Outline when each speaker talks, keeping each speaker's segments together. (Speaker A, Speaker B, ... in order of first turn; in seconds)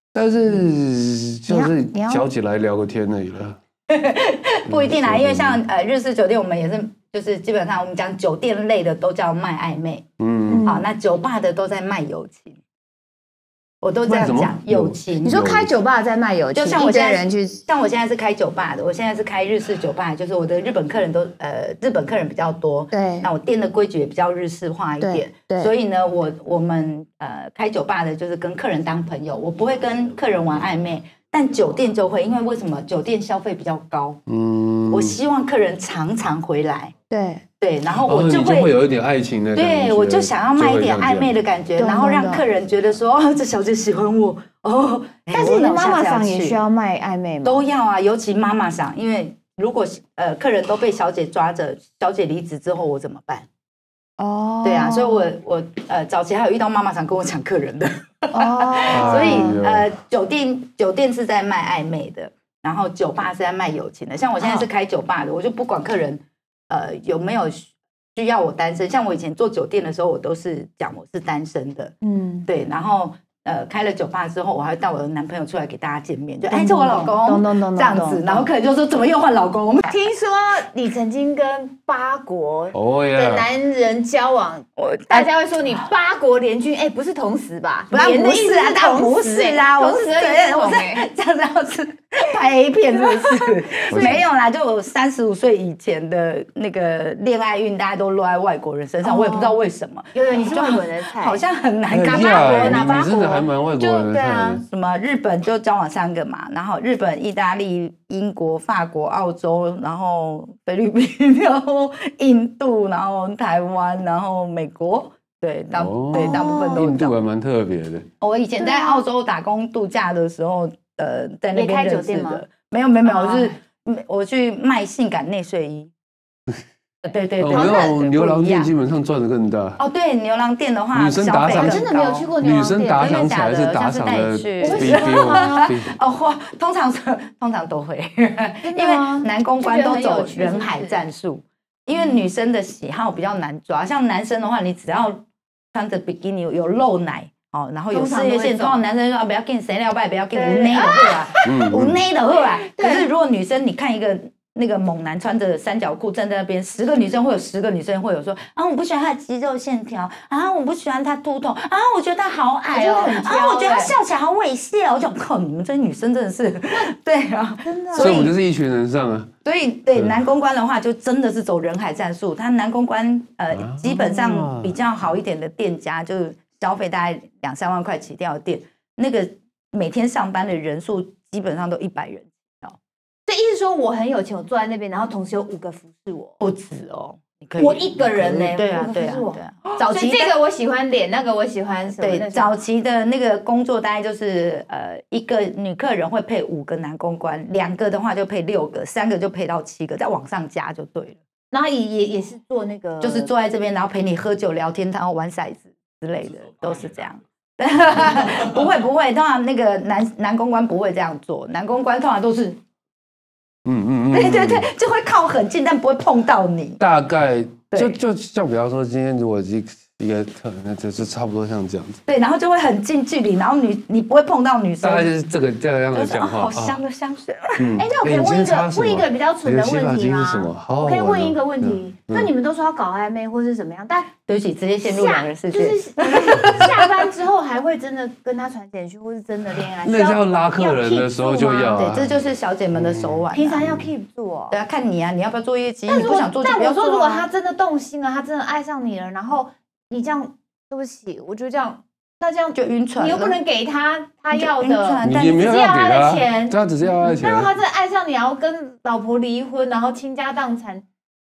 Speaker A: 0.1-3.6, 4.7-5.6, 10.2-10.7, 14.1-15.7, 34.3-35.2, 38.0-41.3, 58.9-59.9, 82.7-83.5, 93.9-94.2, 101.9-104.6, 115.7-118.1, 127.4-129.8, 130.9-131.8, 132.4-135.9, 151.4-152.0, 167.9-169.3, 173.5-174.8, 213.7-214.7, 216.8-222.0, 224.8-226.8, 227.6-232.3, 239.8-242.2, 242.7-243.9, 255.0-257.5
Speaker B: 1.5-2.2, 10.5-10.8, 15.2-17.6, 22.9-23.3, 25.0-25.7, 37.1-37.4, 41.8-42.4, 45.3-47.6, 54.2-55.3, 58.3-59.6, 72.0-72.5, 76.4-78.5, 79.9-91.1, 93.2-94.2, 99.0-99.6, 100.1-101.4, 102.0-104.6, 116.1-116.8, 118.6-119.0, 121.5-122.4, 123.0-123.6, 127.5-127.9, 131.5-133.2, 134.6-135.7, 138.6-141.0, 147.9-148.8, 150.3-151.5, 152.4-153.1, 162.7-163.9, 167.6-168.3, 183.2-186.4, 187.6-192.5, 201.5-203.3, 227.8-234.1, 234.8-241.9, 243.3-244.6, 245.9-260.9
Speaker C: 3.9-10.0, 10.6-12.6, 13.8-15.4, 16.5-34.2, 34.9-36.9, 37.6-38.7, 39.5-46.6, 47.4-53.5, 54.6-71.9, 72.5-79.9, 84.8-85.3, 87.9-103.4, 104.6-117.1, 118.2-125.9, 127.0-128.7, 129.8-132.3, 132.9-168.3, 169.4-182.8, 186.4-190.3, 192.0-201.2, 203.0-212.6, 214.1-216.8, 217.7-218.0, 222.1-225.1, 225.9-227.7, 234.2-236.9, 241.7-243.6, 244.5-247.3, 252.5-253.4, 254.3-255.4